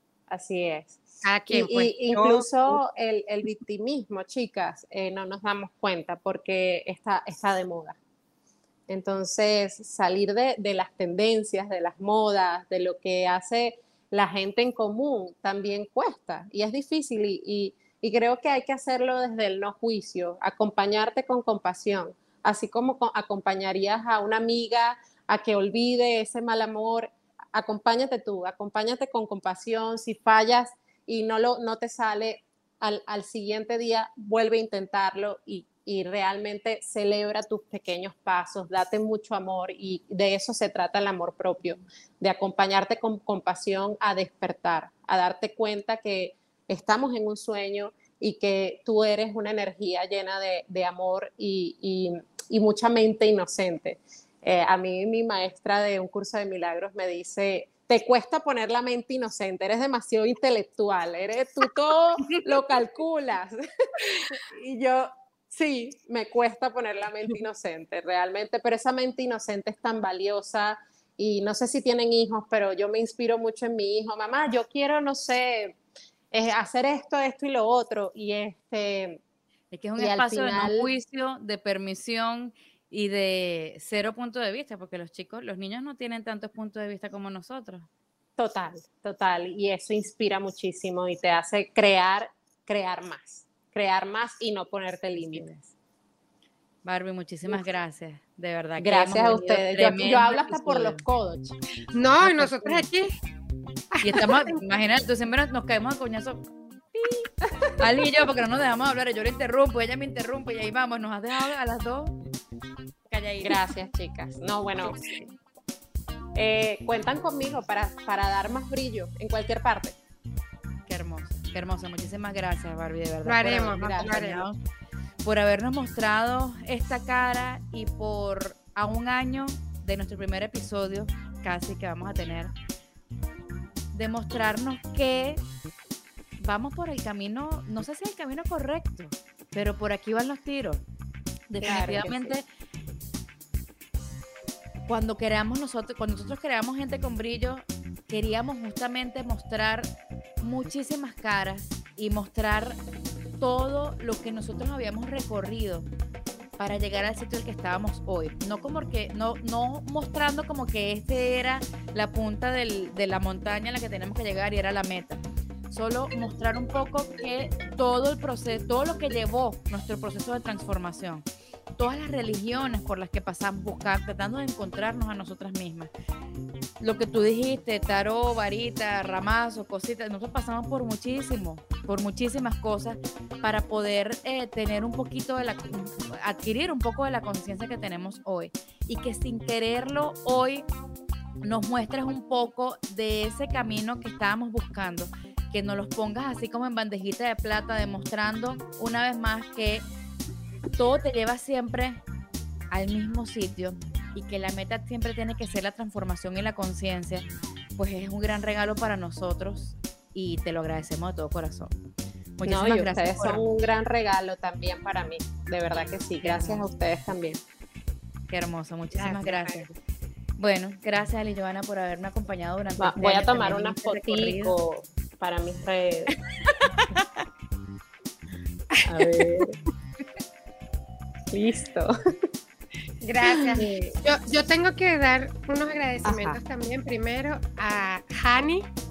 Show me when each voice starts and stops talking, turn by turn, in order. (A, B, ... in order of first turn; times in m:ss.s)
0:00.3-0:08.0 A
0:01.2-0:02.8 B
0:08.9-1:15.8 A
1:16.3-1:19.2 A
1:19.7-1:27.9 C
1:20.0-1:20.9 A
1:28.4-1:35.5 A
1:35.2-1:35.7 C
1:36.8-1:41.0 C
1:38.8-1:41.6 A
1:41.9-1:43.2 B
1:42.2-1:42.9 C
1:43.9-1:44.6 B
1:44.0-1:52.1 C
1:53.1-1:53.7 C
1:53.4-1:55.3 A
1:56.4-2:00.0 A
2:00.9-2:04.6 C
2:03.2-2:04.4 B
2:03.7-2:04.2 A
2:05.2-2:12.5 C
2:13.9-2:15.4 C
2:16.4-2:20.8 C
2:21.5-2:22.4 C
2:21.6-2:22.4 A
2:24.9-2:32.8 C
2:33.4-2:35.9 C
2:36.6-2:51.2 C
2:51.8-2:55.9 C
2:56.8-3:10.6 C
3:11.4-3:19.8 C
3:20.8-3:22.0 C
3:22.7-3:31.7 C
3:32.4-3:33.4 C
3:32.5-3:37.4 A
3:36.2-3:36.7 C
3:38.3-3:39.7 C
3:38.9-3:39.6 B
3:40.4-3:44.6 C
3:42.8-3:46.2 A
3:46.5-3:47.1 C
3:48.8-3:49.3 B
3:48.9-3:49.6 A
3:51.3-3:51.9 A
3:53.0-3:58.7 B
3:53.3-3:54.0 A
3:56.0-3:56.4 A